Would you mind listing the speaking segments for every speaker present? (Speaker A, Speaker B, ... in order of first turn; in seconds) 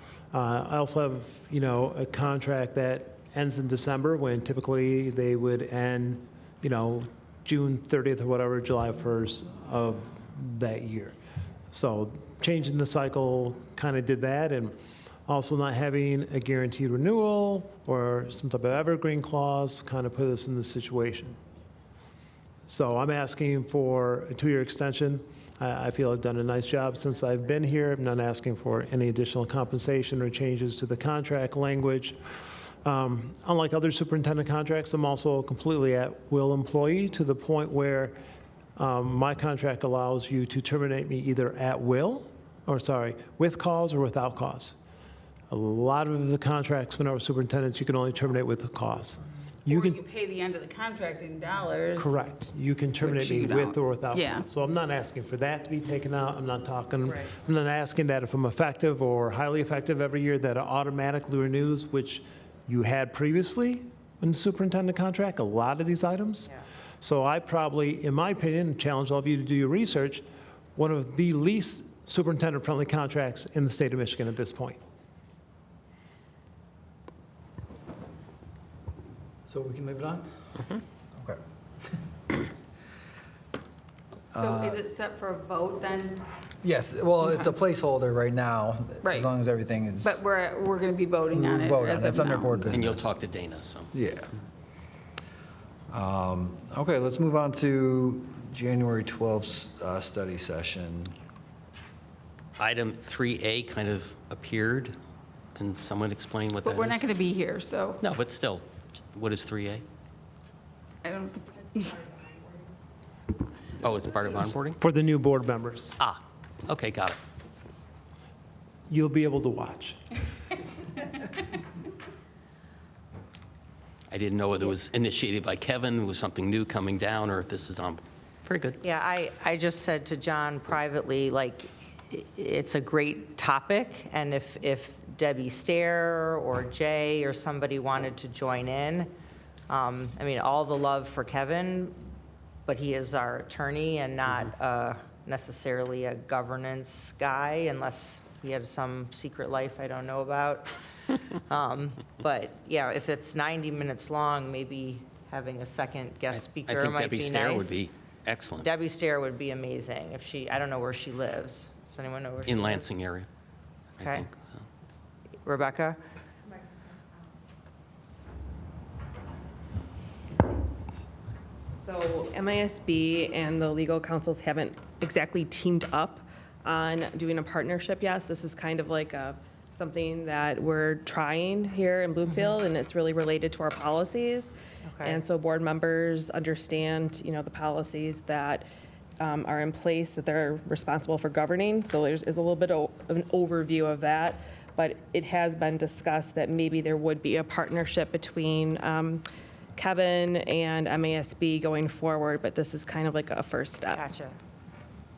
Speaker A: 0.3-11.2, 11.7-14.8, 15.3-21.4, 22.7-32.2, 32.8-38.2, 38.8-44.8, 45.5-50.0, 52.0-70.2, 70.8-74.8, 114.8-116.0, 118.9-120.0
Speaker B: 49.7-52.2, 53.0-54.5, 84.3-86.2, 89.0-89.3, 90.0-92.7, 106.6-108.0, 111.0-112.2
Speaker C: 79.5-80.4, 84.3-84.8, 86.6-90.2, 91.3-93.1, 93.9-94.3, 95.9-101.1
Speaker D: 92.7-93.9, 102.6-105.0, 105.5-107.0, 108.0-109.8, 113.8-114.8, 116.0-117.2, 124.1-128.8, 156.3-158.7, 162.5-163.3, 164.0-164.6
Speaker E: 128.8-139.1, 139.7-142.0, 142.7-150.8, 151.5-157.8, 158.6-162.9, 164.0-164.3, 165.4-166.0, 184.8-185.2, 203.9-204.4
Speaker F: 171.6-188.7, 189.2-199.2, 199.8-204.1